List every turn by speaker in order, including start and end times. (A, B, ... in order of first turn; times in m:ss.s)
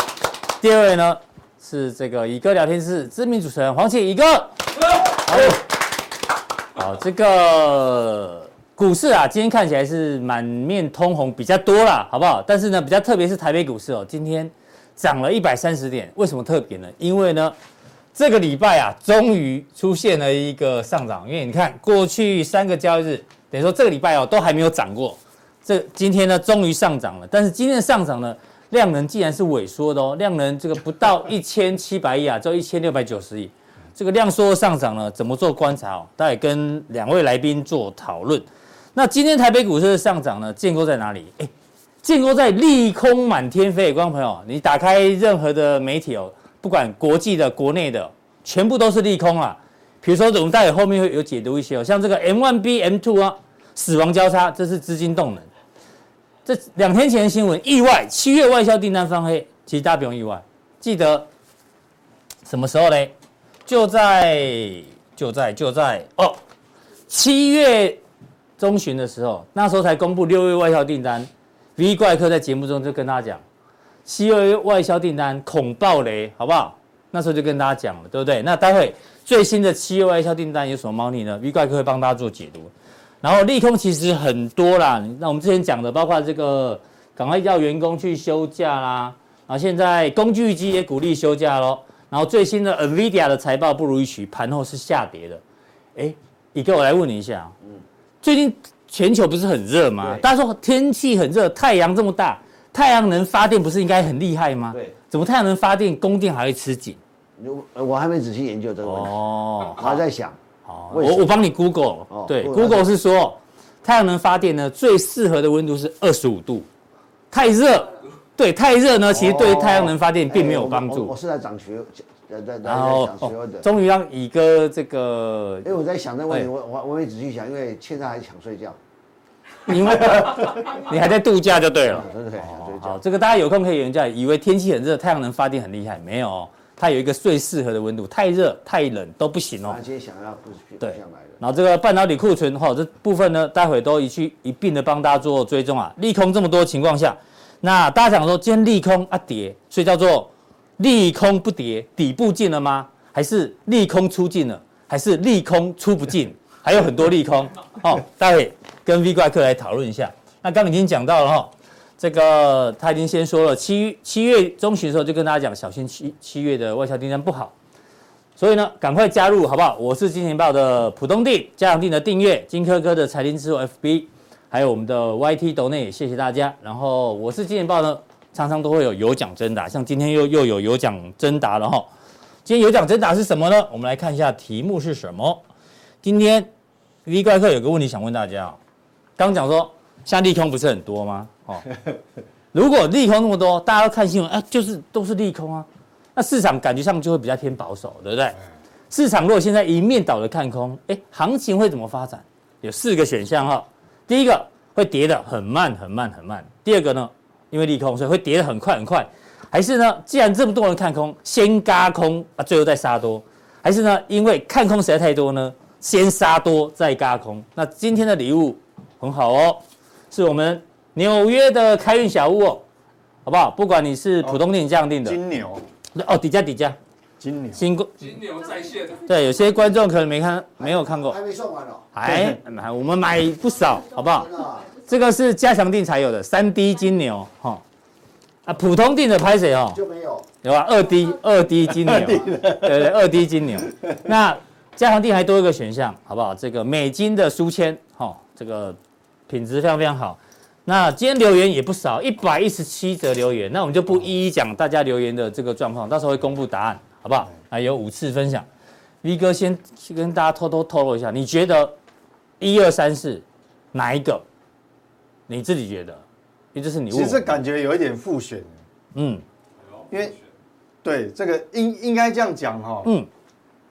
0:00.6-0:05.6 A
0:06.8-0:17.5 A
0:18.1-0:41.5 A
0:42.0-0:55.5 A
0:56.4-1:01.3 A
1:02.4-1:03.1 A
1:03.6-1:06.4 A
1:07.1-1:08.0 A
1:08.6-1:13.4 A
1:14.0-1:22.7 A
1:23.2-1:35.4 A
1:36.0-1:37.5 A
1:38.2-1:47.0 A
1:47.4-1:49.1 B
1:48.8-1:50.0 A
1:49.7-1:50.4 B
1:50.6-1:56.7 A
1:50.9-1:51.3 B
1:52.1-1:52.9 B
1:57.3-2:01.1 A
1:59.1-2:03.6 B
2:02.6-2:05.7 A
2:05.6-2:08.8 B
2:09.6-2:19.8 A
2:10.0-2:10.5 B
2:11.9-2:13.0 B
2:19.7-2:21.4 B
2:20.8-2:47.5 A
2:48.4-3:01.9 A
3:02.4-3:05.4 A
3:06.0-3:06.5 A
3:07.0-3:08.6 A
3:09.2-3:11.7 A
3:12.5-3:18.4 A
3:18.9-3:42.6 A
3:43.2-3:45.2 A
3:45.0-3:45.6 C
3:45.9-3:46.8 A
3:47.2-3:47.6 C
3:47.6-3:51.2 A
3:50.6-3:51.9 B
3:51.9-3:57.6 A
3:52.0-3:52.4 C
3:54.0-3:54.7 B
3:58.4-3:59.8 A
3:59.7-4:00.2 B
4:00.4-4:08.8 A
4:01.8-4:02.8 C
4:09.3-4:18.5 A
4:19.0-4:21.8 A
4:22.4-4:24.2 A
4:25.3-4:26.0 A
4:26.5-4:27.4 A
4:26.9-4:28.5 C
4:28.9-4:29.2 A
4:29.9-4:30.2 C
4:30.8-4:32.9 C